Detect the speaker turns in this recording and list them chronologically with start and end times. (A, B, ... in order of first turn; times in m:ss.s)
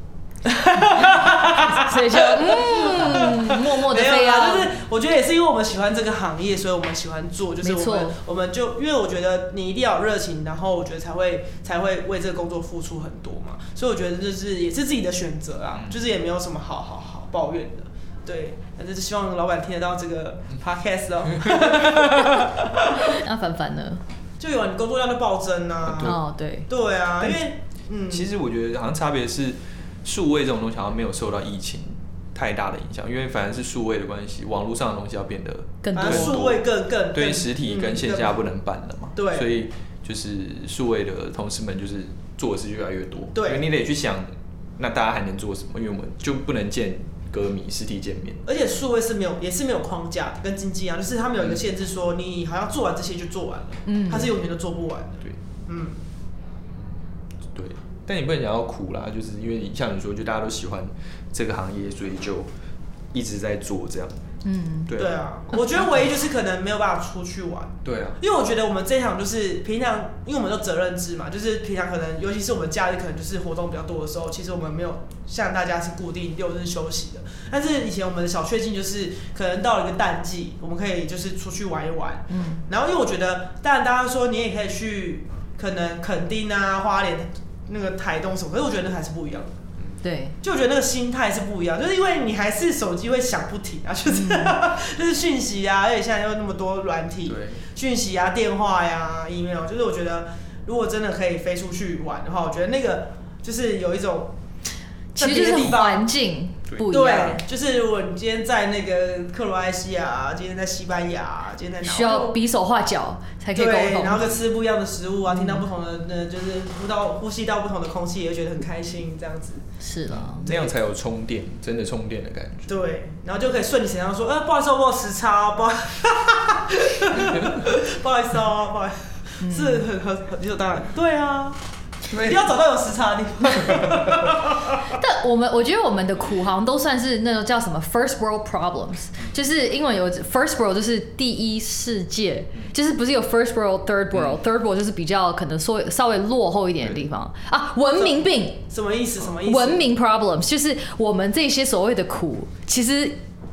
0:00.4-0:23.2 A
0:00.8-0:04.7 B
0:07.6-0:08.2 B
0:15.7-0:16.0 C
0:23.0-0:24.0 B
0:24.4-0:28.3 A
0:25.8-0:26.2 C
0:26.0-0:26.7 B
0:28.1-0:48.4 C
0:35.8-0:36.4 B
0:36.0-0:38.4 A
0:39.2-0:39.5 A
0:43.4-0:43.6 A
0:48.5-0:56.0 A
0:51.4-0:51.6 C
0:53.9-0:54.3 B
0:57.5-1:02.5 C
1:03.1-1:04.3 C
1:04.4-1:04.9 B
1:04.9-1:05.2 C
1:04.9-1:29.6 A
1:07.8-1:08.2 C
1:22.3-1:22.6 B
1:30.0-1:30.4 B
1:30.4-1:44.4 A
1:34.1-1:34.6 B
1:37.3-1:37.6 C
1:45.2-1:47.4 B
1:45.2-1:46.1 A
1:46.9-1:52.4 A
1:51.8-1:54.2 B
1:53.6-1:59.6 A
1:55.3-1:55.6 B
1:59.8-2:00.5 B
2:00.1-2:02.7 C
2:00.4-2:00.7 A
2:02.7-2:11.6 A
2:07.2-2:07.7 C
2:09.4-2:09.9 B
2:12.1-2:14.8 A
2:12.1-2:12.4 C
2:13.7-2:14.3 C
2:14.9-2:28.6 B
2:28.0-2:29.9 A
2:29.4-2:33.2 B